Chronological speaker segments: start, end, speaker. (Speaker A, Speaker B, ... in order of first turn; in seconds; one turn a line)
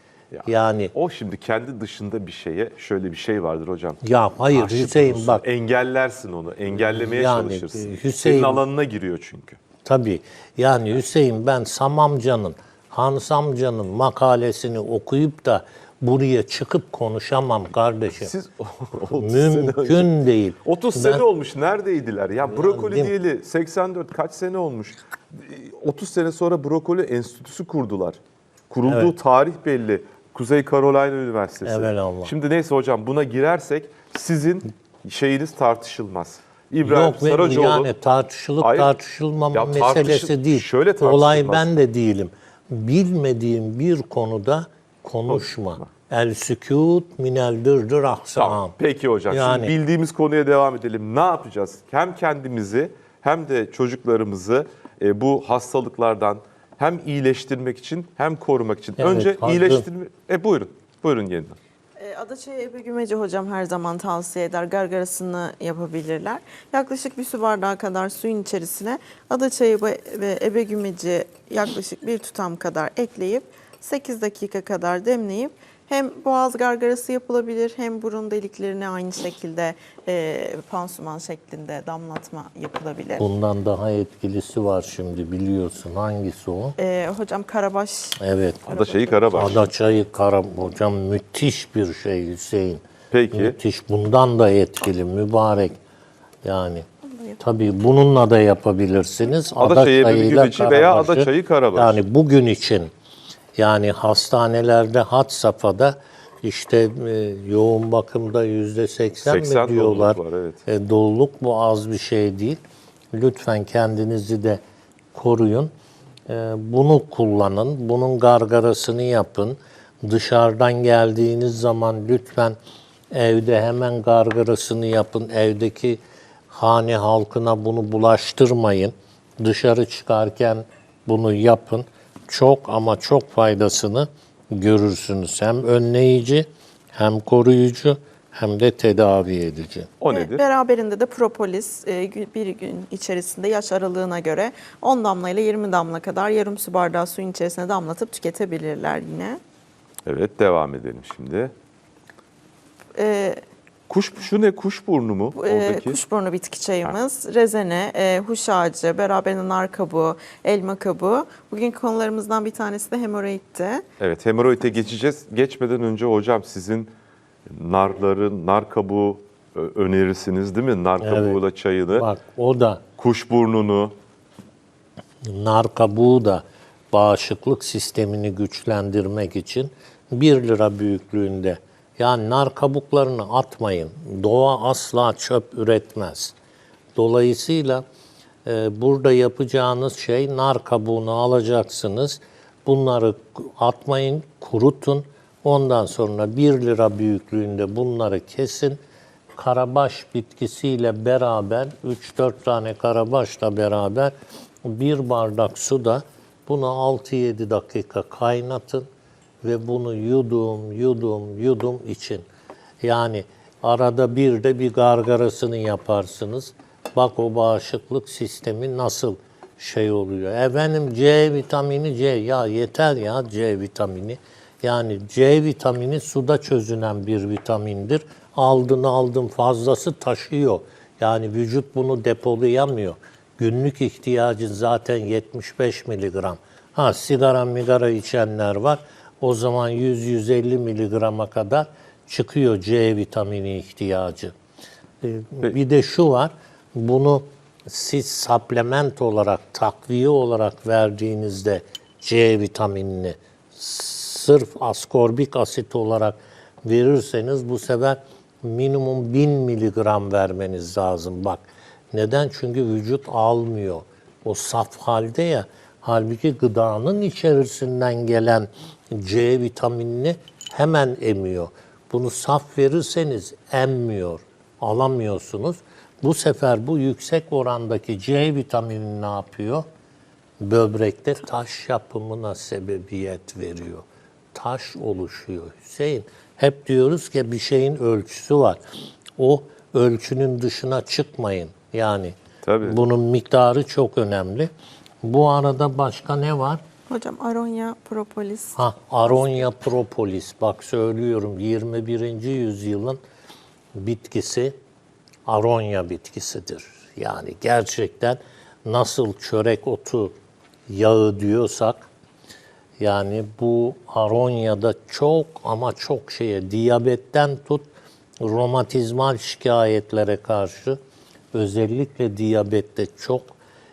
Speaker A: 0.3-9.6
Speaker B: 0.5-0.9
Speaker B: 4.0-5.4
Speaker B: 6.9-8.6
Speaker B: 9.8-18.3
Speaker A: 18.2-37.9
Speaker B: 19.2-21.2
Speaker B: 22.5-23.1
Speaker B: 28.9-29.1
Speaker B: 31.6-32.3
Speaker B: 36.8-48.7
Speaker A: 38.6-38.9
Speaker A: 39.5-41.7
Speaker A: 45.3-45.8
Speaker A: 48.4-61.6
Speaker B: 49.3-49.7
Speaker B: 59.0-59.9
Speaker C: 62.0-83.3
Speaker B: 83.2-86.8
Speaker C: 86.8-89.3
Speaker B: 88.2-88.6
Speaker A: 88.7-89.6
Speaker B: 89.3-92.8
Speaker A: 93.1-93.6
Speaker B: 93.3-95.8
Speaker B: 96.4-96.9
Speaker B: 97.4-102.9
Speaker A: 99.6-102.0
Speaker B: 103.6-112.6
Speaker A: 109.2-110.6
Speaker B: 113.1-114.6
Speaker B: 115.1-115.7
Speaker B: 116.3-122.6
Speaker B: 123.1-139.9
Speaker A: 140.0-140.4
Speaker C: 140.1-149.4
Speaker A: 150.1-151.5
Speaker C: 152.9-153.4
Speaker A: 153.9-156.0
Speaker C: 155.3-163.8
Speaker A: 164.0-166.9
Speaker A: 167.5-172.1
Speaker B: 171.0-171.4
Speaker B: 171.9-172.8
Speaker A: 173.0-173.9
Speaker B: 175.2-186.3
Speaker B: 187.0-187.8
Speaker B: 188.4-198.8
Speaker B: 199.4-204.1
Speaker B: 204.7-208.9
Speaker B: 209.4-212.3
Speaker B: 212.8-244.3
Speaker B: 245.0-279.6
Speaker B: 280.4-288.6
Speaker B: 289.2-294.5
Speaker A: 292.4-292.8
Speaker B: 295.0-296.6
Speaker C: 296.9-298.6
Speaker B: 298.6-303.0
Speaker B: 303.8-304.6
Speaker B: 305.3-310.1
Speaker B: 310.7-311.9
Speaker B: 312.8-317.7
Speaker B: 318.2-320.8
Speaker B: 321.3-323.4